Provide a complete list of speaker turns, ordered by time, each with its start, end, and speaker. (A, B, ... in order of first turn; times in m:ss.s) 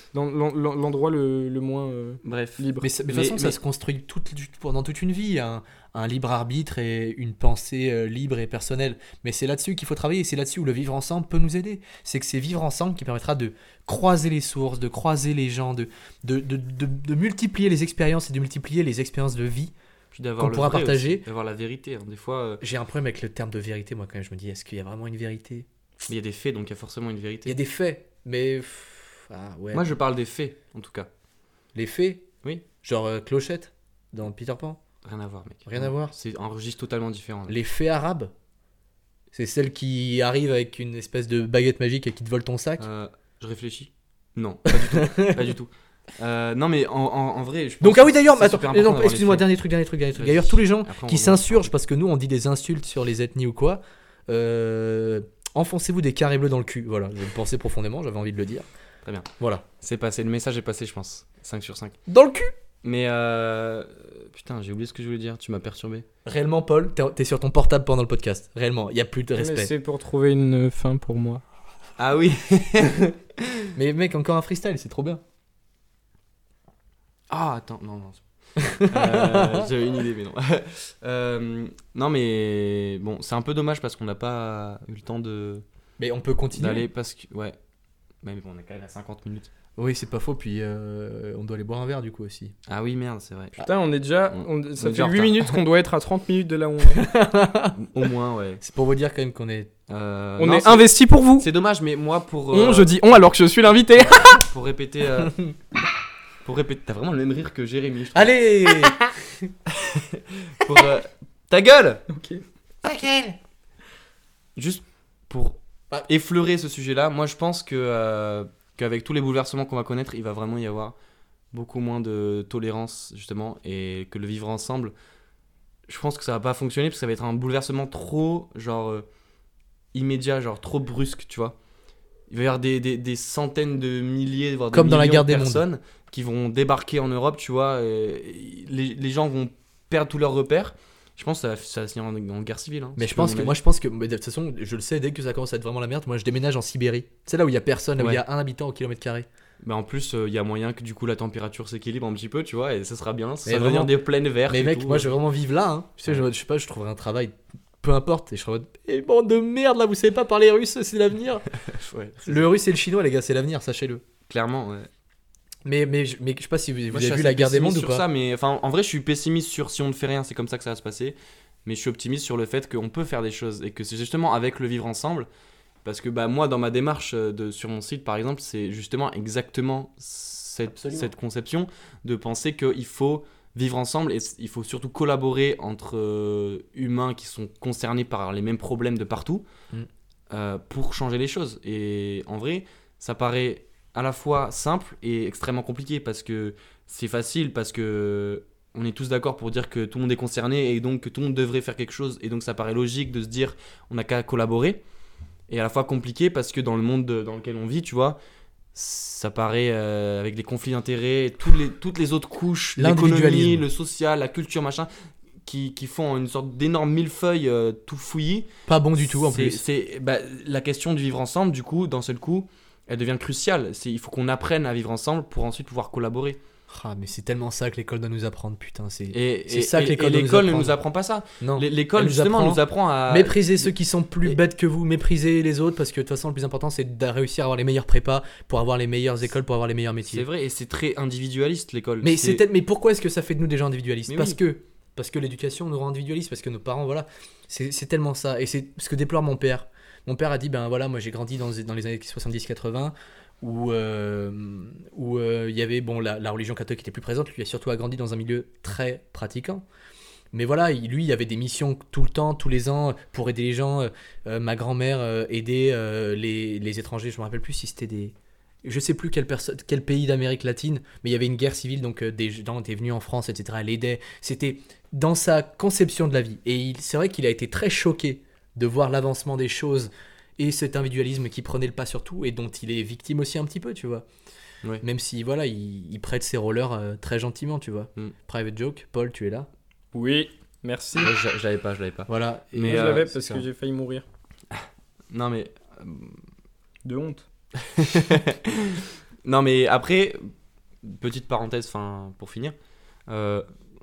0:00.1-0:02.9 A
0:02.2-0:03.6 B
0:02.8-0:19.7 C
0:20.1-0:22.6 B
0:20.4-0:21.2 C
0:22.6-0:25.6 C
0:26.1-0:27.6 B
0:27.4-0:29.8 C
0:29.7-0:31.1 B
0:31.7-0:32.3 C
0:32.8-0:34.8 C
0:35.0-0:37.6 B
0:35.7-0:36.1 C
0:37.5-0:38.3 C
0:39.3-0:42.8 C
0:42.8-0:49.5 B
0:44.7-0:45.4 C
0:47.8-0:58.7 C
0:50.1-0:51.7 B
0:59.0-1:02.0 B
0:59.4-0:59.6 C
1:02.1-1:02.5 C
1:02.8-1:06.0 B
1:06.2-1:09.7 C
1:09.4-1:11.4 A
1:12.0-1:13.6 B
1:13.7-1:15.2 C
1:17.3-1:18.2 B
1:18.6-1:19.7 C
1:18.8-1:25.6 B
1:26.0-1:26.9 C
1:26.5-1:27.6 B
1:28.2-1:29.5 B
1:29.8-1:32.5 C
1:32.7-1:33.6 B
1:33.6-1:37.0 A
1:34.3-1:35.6 B
1:36.9-1:37.8 C
1:37.7-1:38.6 B
1:38.6-1:39.7 C
1:39.9-1:40.9 B
1:40.4-1:41.5 A
1:41.4-1:42.9 B
1:42.5-1:44.4 A
1:44.0-1:45.4 B
1:45.2-1:45.5 C
1:46.4-1:48.3 B
1:48.1-1:49.0 C
1:49.7-1:52.0 B
1:52.1-1:52.4 A
1:52.8-1:53.4 C
1:54.6-2:00.9 B
2:01.5-2:04.9 B
2:05.9-2:09.0 B
2:09.9-2:11.5 B
2:12.3-2:23.6 B
2:14.7-2:15.6 C
2:23.0-2:29.2 C
2:29.6-2:35.1 B
2:33.4-2:41.4 C
2:41.6-2:42.4 B
2:42.2-2:44.0 C
2:44.3-2:44.9 B
2:45.6-2:48.0 C
2:46.9-2:51.1 B
2:51.6-2:55.3 B
2:55.8-3:09.4 B
3:00.7-3:01.1 C
3:10.3-3:24.8 B
3:25.5-3:28.2 B
3:28.7-3:34.9 B
3:32.8-3:33.6 C
3:35.4-3:46.4 B
3:38.7-3:39.6 C
3:46.7-3:50.8 C
3:49.1-3:53.7 B
3:51.4-4:00.2 C
4:00.1-4:02.4 B
4:02.0-4:19.6 C
4:04.1-4:04.4 B
4:20.3-4:44.0 C
4:44.8-4:49.5 C
4:49.9-4:51.1 A
4:51.0-4:53.1 B
4:52.1-4:53.4 C
4:52.6-4:54.0 A
4:54.5-4:56.2 B
4:56.8-4:57.2 A
4:57.6-5:00.3 B
5:00.8-5:02.5 B
5:03.1-5:03.4 B